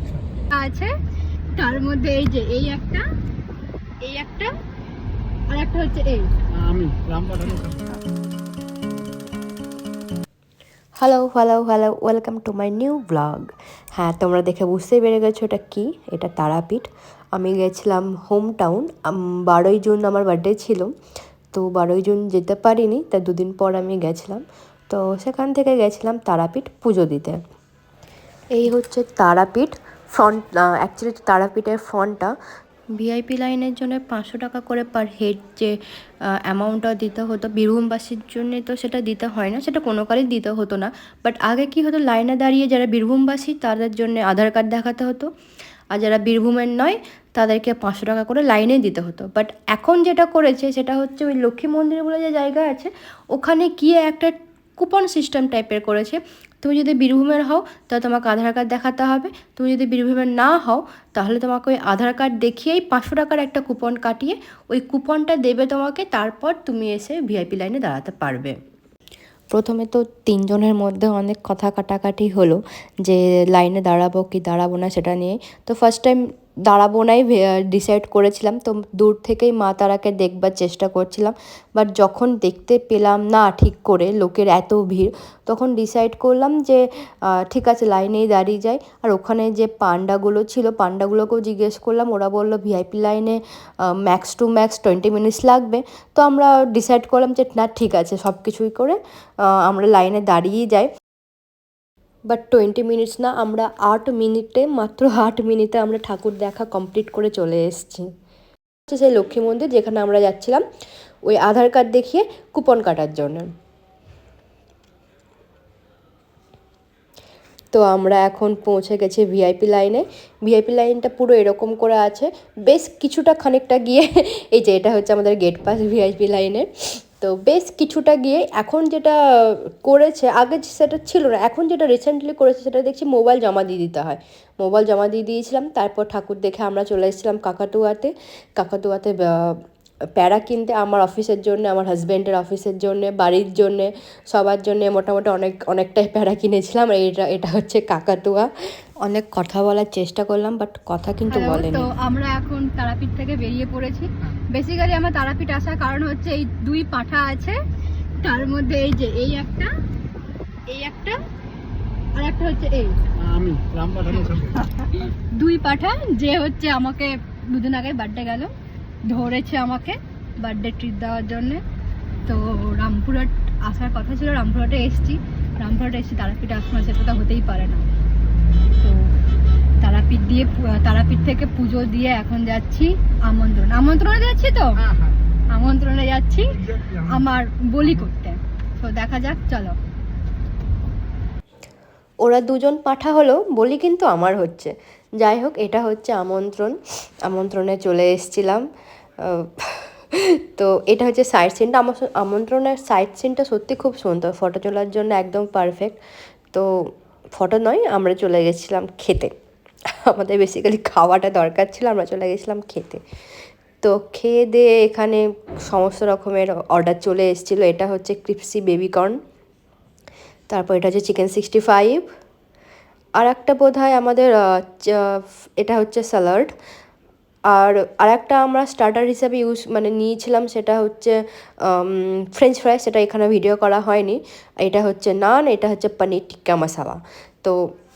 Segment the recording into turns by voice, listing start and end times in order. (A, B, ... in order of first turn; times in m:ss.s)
0:00.5-0:00.9 A
0:01.6-0:03.0 A
0:04.0-0:04.5 A
0:05.5-0:06.3 A
0:06.5-0:07.8 B
0:11.0-0:20.9 C
0:21.5-0:27.4 C
0:28.5-0:32.3 C
0:32.9-0:35.8 C
0:36.3-0:45.3 C
0:45.9-1:08.6 C
1:09.5-1:33.4 C
1:34.0-1:39.0 C
1:39.5-1:40.9 C
1:42.3-1:48.1 C
1:48.9-1:50.6 C
1:51.2-1:53.5 C
1:57.7-2:19.6 C
2:20.2-2:28.5 C
2:29.0-2:31.9 C
2:31.3-2:37.6 A
2:38.2-2:39.7 A
2:40.7-2:41.2 A
2:42.2-2:43.0 A
2:43.1-2:44.6 B
2:44.2-2:48.5 A
2:49.0-2:51.6 A
2:52.2-2:57.8 A
2:58.8-2:59.1 A
2:59.8-3:04.8 A
3:04.8-3:05.2 B
3:05.5-3:09.8 A
3:12.2-3:18.6 C
3:19.2-3:26.0 C
3:27.4-3:29.3 C
3:30.0-3:33.0 C
3:33.8-3:39.2 C
3:40.5-3:42.0 C
3:43.2-3:46.5 C
3:47.5-3:57.6 C